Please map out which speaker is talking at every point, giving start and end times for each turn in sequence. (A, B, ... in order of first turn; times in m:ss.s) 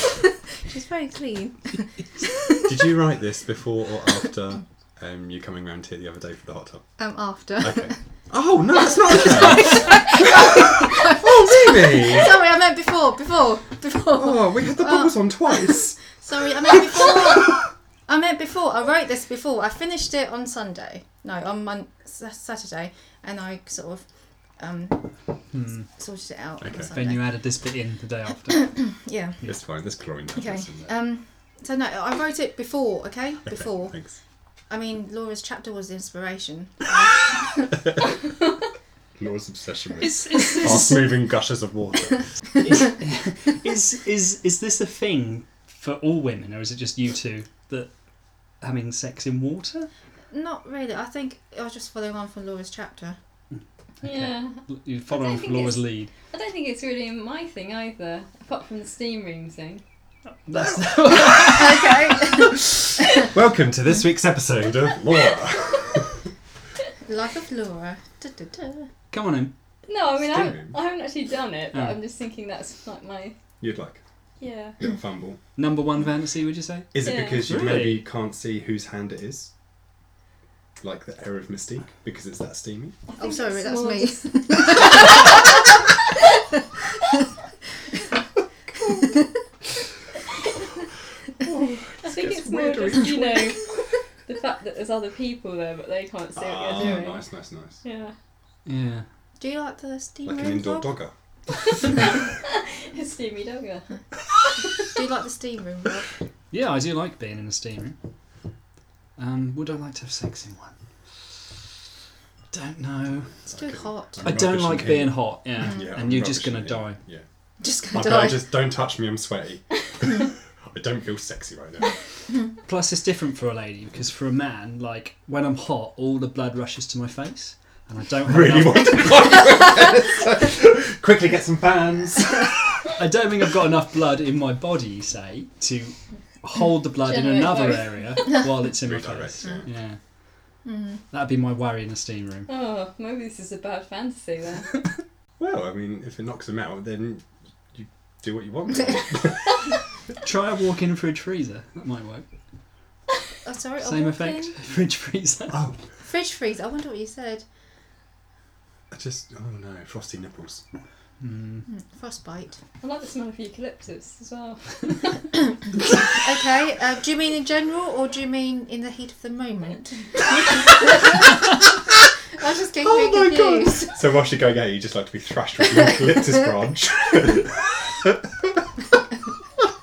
0:00.6-0:02.6 A
0:02.6-0:06.9 B
0:07.0-0:08.0 A
0:07.6-0:12.3 B
0:08.9-0:24.0 A
0:14.1-0:16.2 B
0:16.7-0:17.6 B
0:24.6-0:25.1 A
0:25.5-0:25.9 C
0:25.9-0:27.3 A
0:26.6-0:26.9 B
0:26.9-0:28.8 C
0:28.6-0:29.4 A
0:29.4-0:30.9 B
0:30.4-0:34.0 A
0:33.4-0:34.2 B
0:34.7-0:37.8 A
0:39.2-0:42.3 B
0:40.0-0:41.1 C
0:42.6-0:47.9 C
0:48.6-0:49.9 C
0:50.3-0:53.2 A
0:54.0-0:56.1 C
0:54.0-0:59.8 D
1:00.3-1:02.4 C
1:01.5-1:02.6 A
1:03.2-1:06.3 B
1:07.0-1:08.9 A
1:09.1-1:09.5 C
1:09.9-1:13.4 D
1:10.2-1:10.8 B
1:13.6-1:14.0 B
1:14.4-1:14.8 D
1:14.8-1:15.4 B
1:15.6-1:18.0 C
1:16.9-1:19.5 B
1:17.0-1:17.5 D
1:20.8-1:23.0 B
1:23.1-1:25.0 D
1:23.2-1:25.6 A
1:31.5-1:33.2 B
1:32.0-1:33.7 D
1:34.2-1:37.2 D
1:36.4-1:37.8 B
1:37.8-1:38.1 D
1:38.6-1:39.0 C
1:39.4-1:41.0 A
1:40.2-1:41.1 B
1:41.8-1:44.6 D
1:44.8-1:46.1 A
1:46.5-1:48.0 C
1:49.2-1:50.7 C
1:52.5-1:53.3 C
1:53.4-1:57.2 B
1:53.5-1:54.4 A
1:54.2-1:57.0 C
1:57.6-1:58.4 A
1:57.9-2:02.0 B
2:02.6-2:09.2 C
2:08.2-2:12.8 B
2:13.0-2:20.0 C
2:16.9-2:18.4 D
2:18.8-2:19.7 B
2:20.6-2:21.0 A
2:21.1-2:22.5 C
2:22.5-2:24.8 D
2:25.4-2:29.7 B
2:30.2-2:32.2 C
2:33.4-2:34.5 A
2:33.8-2:35.6 C
2:35.5-2:35.8 B
2:36.0-2:37.4 A
2:38.9-2:40.6 B
2:41.2-2:41.7 C
2:41.7-2:42.6 A
2:42.8-2:45.3 D
2:46.1-2:51.1 A
2:52.4-2:54.0 A
2:52.8-2:58.6 B